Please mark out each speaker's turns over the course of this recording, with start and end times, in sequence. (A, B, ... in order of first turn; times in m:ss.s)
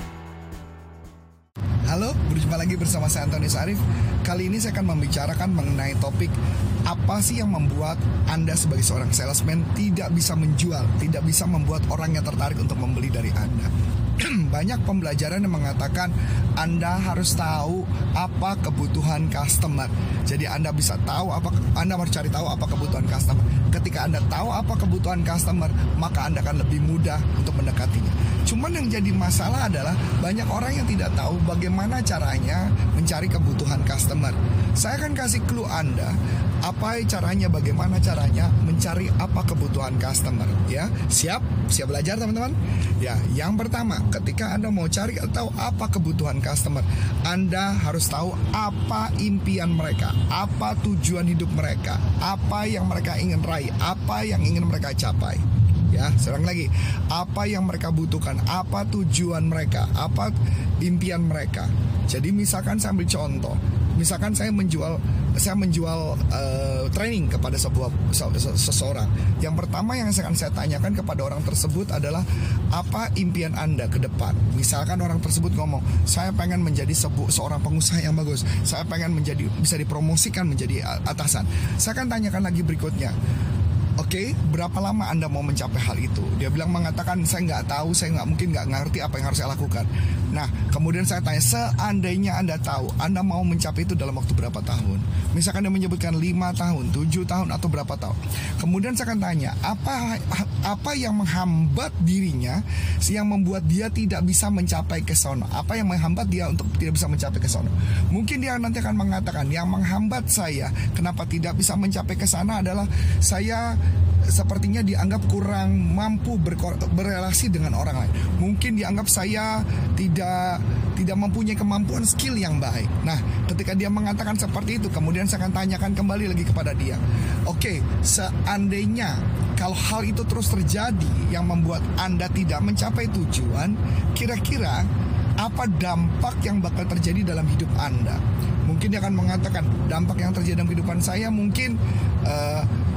0:01.9-0:06.3 A
0:06.9-1:23.2 A
1:24.0-2:14.9 A
2:15.4-2:22.7 A